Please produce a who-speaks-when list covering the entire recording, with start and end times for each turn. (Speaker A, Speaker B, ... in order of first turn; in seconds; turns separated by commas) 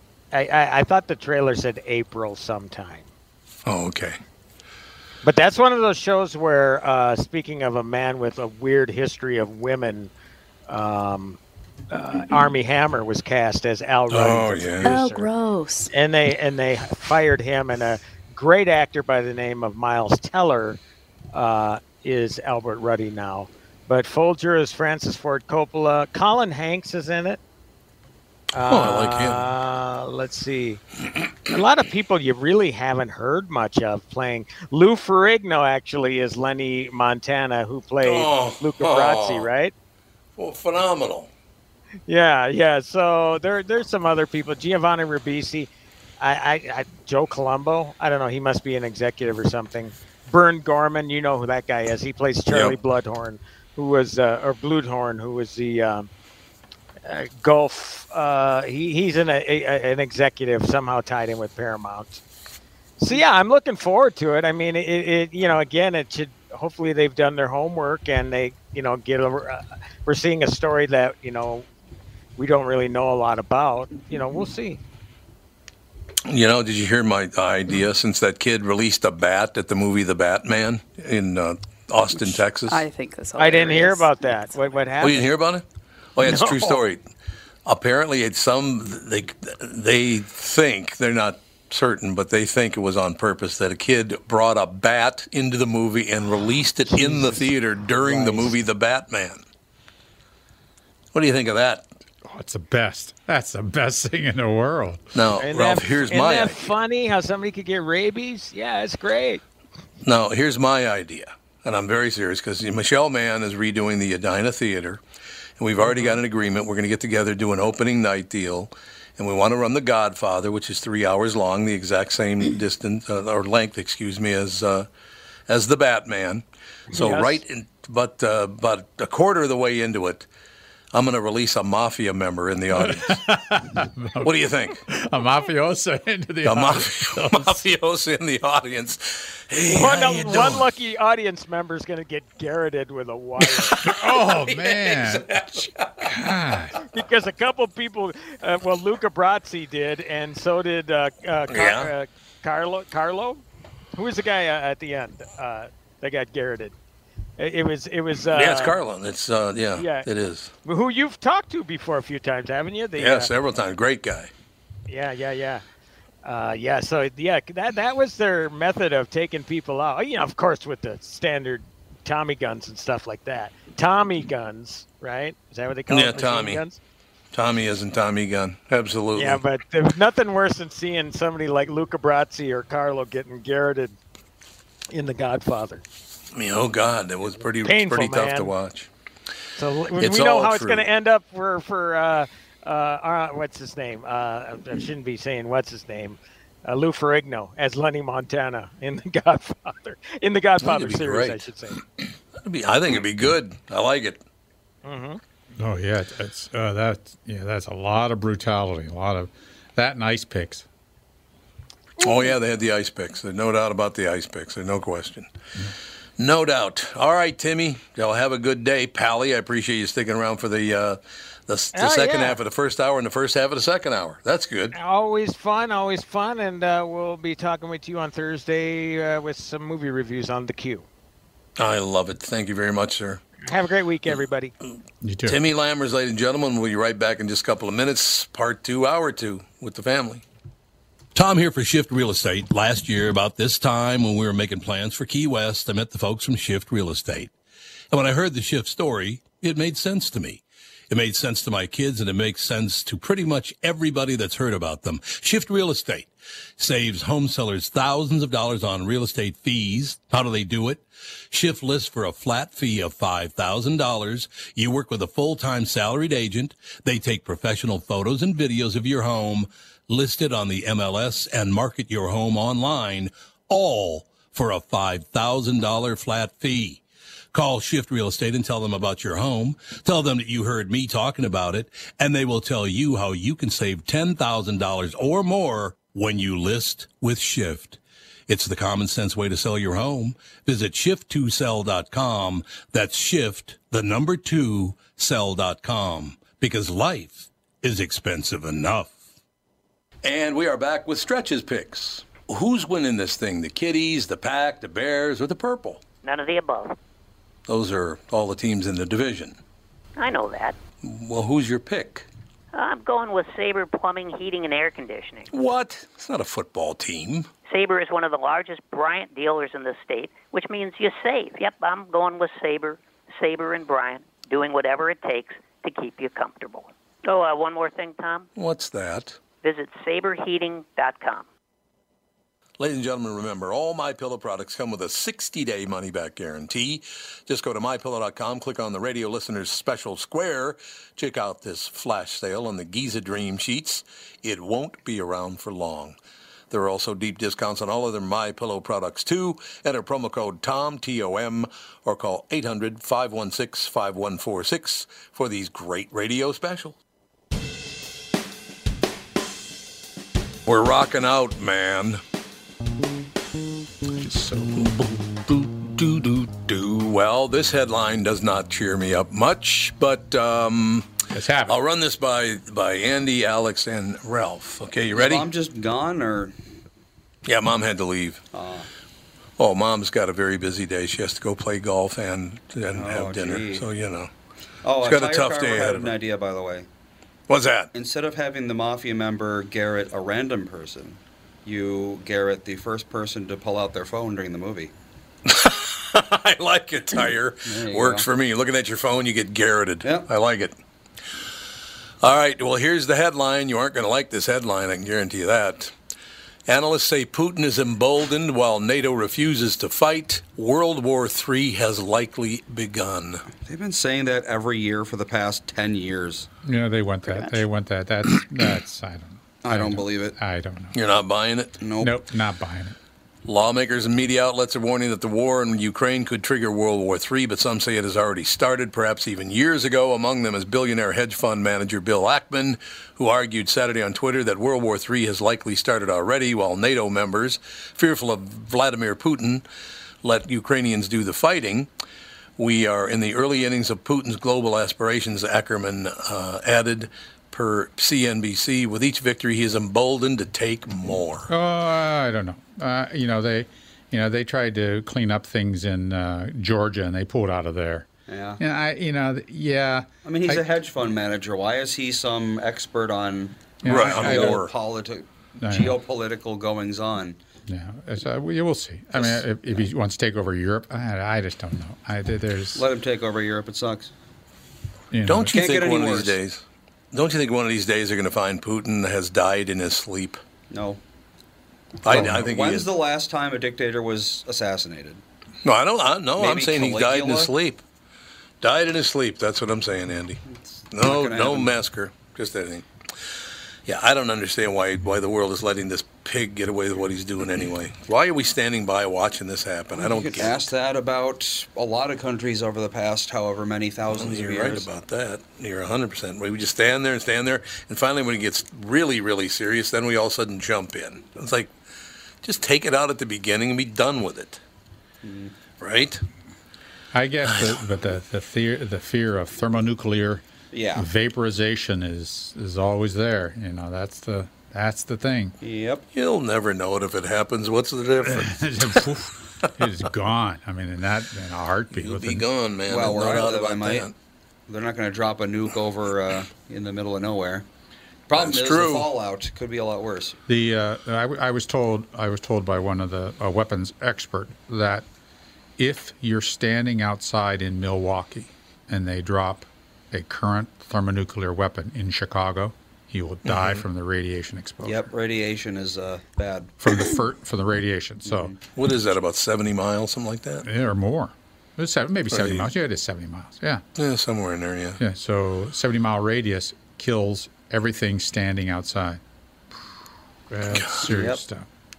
Speaker A: 0.3-3.1, Speaker B: 3.6-4.2, Speaker A: 5.2-10.1, Speaker A: 10.7-11.4, Speaker A: 11.9-15.3, Speaker B: 14.1-14.9, Speaker C: 14.8-15.9, Speaker A: 15.9-20.8, Speaker A: 21.3-27.4, Speaker A: 28.5-30.8, Speaker B: 28.7-29.5, Speaker A: 31.5-39.7, Speaker B: 38.0-39.5, Speaker B: 40.4-41.3, Speaker A: 42.1-56.1, Speaker B: 52.5-52.8, Speaker A: 57.0-62.2, Speaker A: 63.0-71.7, Speaker A: 72.4-74.8, Speaker B: 76.3-82.8, Speaker C: 82.2-84.2, Speaker A: 83.4-85.3, Speaker B: 85.0-85.6, Speaker B: 86.2-87.0, Speaker A: 86.2-86.8, Speaker B: 87.7-99.4, Speaker A: 96.9-98.5, Speaker B: 101.1-101.8, Speaker D: 102.2-105.0, Speaker B: 105.1-106.6, Speaker A: 105.4-109.4, Speaker B: 110.0-115.0, Speaker B: 115.6-124.9, Speaker A: 115.8-116.2, Speaker B: 125.5-130.3, Speaker A: 126.9-127.4, Speaker B: 130.9-133.2, Speaker D: 132.7-134.3, Speaker B: 134.2-134.8, Speaker D: 134.9-137.6, Speaker B: 136.4-140.7, Speaker A: 139.7-143.8, Speaker B: 143.4-146.2, Speaker D: 143.8-146.8, Speaker A: 146.9-153.4, Speaker B: 151.5-151.9, Speaker A: 153.9-156.7, Speaker A: 157.4-158.8, Speaker B: 158.3-160.5, Speaker A: 159.8-160.1, Speaker A: 160.6-163.3, Speaker B: 163.0-164.3, Speaker A: 164.9-165.6, Speaker A: 166.2-176.8, Speaker B: 175.9-176.6, Speaker B: 177.3-179.4, Speaker A: 179.2-183.9, Speaker A: 184.9-185.8, Speaker B: 186.3-188.9, Speaker A: 187.6-188.5, Speaker A: 189.6-201.8, Speaker B: 190.0-190.9, Speaker B: 200.6-201.5, Speaker B: 202.4-204.2, Speaker A: 204.8-205.2, Speaker D: 205.6-210.6, Speaker B: 212.0-215.3, Speaker B: 216.2-224.7, Speaker A: 221.7-222.4, Speaker A: 224.7-230.8, Speaker B: 231.6-233.2, Speaker A: 233.4-234.5, Speaker D: 235.0-235.4, Speaker B: 235.2-240.2, Speaker B: 241.1-247.3, Speaker B: 247.9-276.8, Speaker B: 277.3-299.0, Speaker B: 300.0-305.8, Speaker E: 306.0-306.8, Speaker B: 307.5-309.4, Speaker E: 309.9-310.6, Speaker B: 310.8-312.1, Speaker E: 312.5-315.3, Speaker B: 315.3-317.3, Speaker E: 317.5-328.3, Speaker B: 328.4-329.2, Speaker E: 329.4-331.2, Speaker B: 332.6-346.0, Speaker B: 346.5-356.8, Speaker B: 360.4-362.0, Speaker D: 364.0-364.6, Speaker B: 364.5-370.9, Speaker D: 371.1-371.6, Speaker B: 371.4-375.3, Speaker F: 374.9-376.3, Speaker B: 377.2-378.2, Speaker F: 378.3-378.7, Speaker B: 379.4-384.1, Speaker F: 382.7-383.6, Speaker F: 384.6-386.7, Speaker B: 384.8-385.9, Speaker B: 387.3-387.7, Speaker F: 387.7-394.7, Speaker B: 395.3-400.5, Speaker F: 397.5-398.1, Speaker F: 399.8-400.1, Speaker B: 402.0-405.7, Speaker B: 406.5-413.2, Speaker F: 413.4-416.3, Speaker D: 416.4-420.7, Speaker C: 417.1-417.4, Speaker F: 419.4-420.2, Speaker B: 420.7-421.5, Speaker F: 421.6-422.0, Speaker D: 421.8-422.7, Speaker B: 423.2-439.4, Speaker B: 440.0-441.7, Speaker B: 442.4-451.3, Speaker D: 451.3-457.9, Speaker F: 458.1-458.4, Speaker D: 458.4-460.4, Speaker F: 460.0-467.2, Speaker D: 463.6-464.5, Speaker B: 463.6-464.5, Speaker D: 465.4-465.8, Speaker D: 467.5-472.6, Speaker F: 468.9-469.2, Speaker F: 472.5-473.9, Speaker D: 474.9-475.4, Speaker B: 475.1-480.2, Speaker F: 475.3-476.2, Speaker F: 480.5-480.8, Speaker B: 481.8-482.6, Speaker F: 481.9-485.0, Speaker B: 485.4-487.6, Speaker F: 486.2-487.3, Speaker B: 488.4-490.2, Speaker F: 490.3-491.5, Speaker B: 490.7-492.6, Speaker B: 493.6-500.5, Speaker F: 499.7-504.7, Speaker B: 503.9-511.5, Speaker B: 512.2-514.4, Speaker F: 515.0-515.3, Speaker B: 515.6-516.0, Speaker D: 516.9-525.4, Speaker B: 517.3-517.6, Speaker F: 520.5-520.9, Speaker F: 525.4-525.8, Speaker B: 525.9-528.8, Speaker D: 528.0-532.2, Speaker B: 531.7-533.9, Speaker F: 532.7-533.9, Speaker F: 534.5-537.5, Speaker F: 538.1-540.2, Speaker B: 538.1-538.9, Speaker D: 540.3-544.8, Speaker D: 545.6-554.8, Speaker B: 553.2-553.6, Speaker F: 554.6-556.8, Speaker D: 556.6-558.3, Speaker F: 558.0-558.4, Speaker B: 558.5-560.4, Speaker D: 560.4-563.6, Speaker B: 562.1-562.5, Speaker B: 563.8-564.8, Speaker D: 564.8-569.0, Speaker D: 570.3-571.4, Speaker B: 570.5-570.8, Speaker F: 570.8-571.2